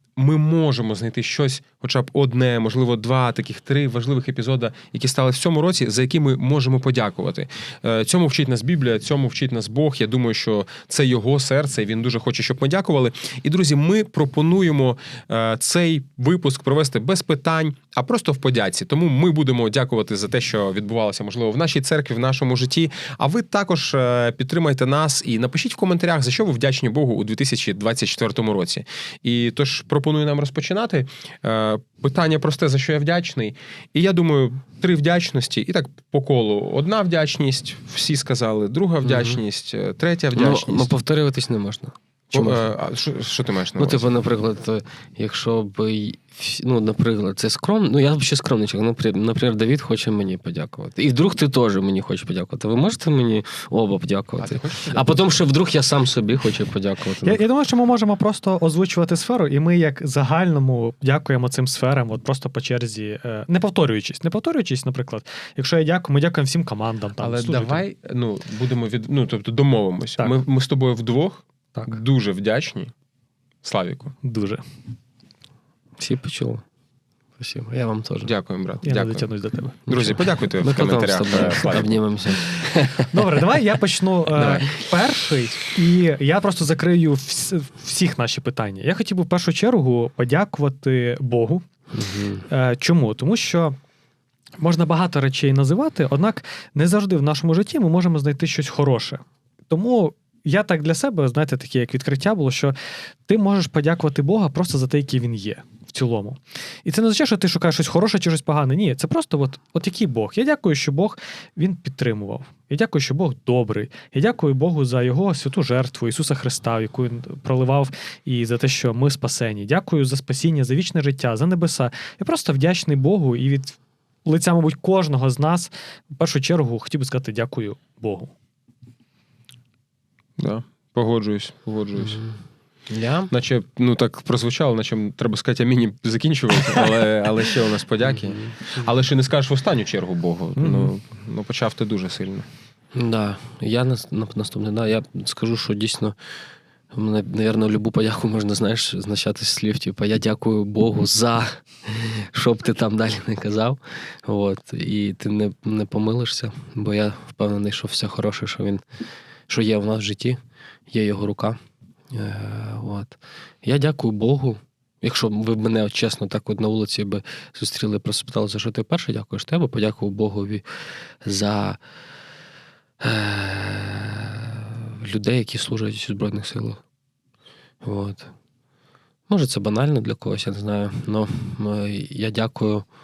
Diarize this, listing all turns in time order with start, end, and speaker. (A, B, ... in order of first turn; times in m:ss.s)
0:00.2-0:40.9 A
0:39.0-0:39.4 B
0:40.3-0:42.6 B
0:42.3-0:44.1 A
0:43.8-0:57.4 B
0:54.4-0:55.3 A
0:57.2-1:07.8 C
1:07.2-1:12.9 A
1:13.6-1:14.1 A
1:14.2-1:14.6 C
1:16.0-1:16.6 B
1:17.4-1:18.3 B
1:18.2-1:19.3 A
1:18.8-1:20.1 C
1:19.9-1:21.9 A
1:19.9-1:23.2 B
1:22.9-1:31.6 C
1:24.3-1:24.7 A
1:31.9-1:32.4 B
1:32.5-1:33.8 C
1:34.6-1:42.7 C
1:43.3-2:08.3 C
2:10.4-2:12.2 A
2:12.0-2:12.4 B
2:12.9-2:13.3 B
2:13.3-2:22.5 A
2:18.0-2:18.5 B
2:20.6-2:20.9 C
2:22.9-2:26.2 B
2:26.9-2:38.8 B
2:39.5-2:41.6 B
2:42.1-2:50.6 B
2:51.2-2:51.8 B
2:53.0-2:56.8 B
2:57.8-2:58.3 B
2:59.3-3:02.9 B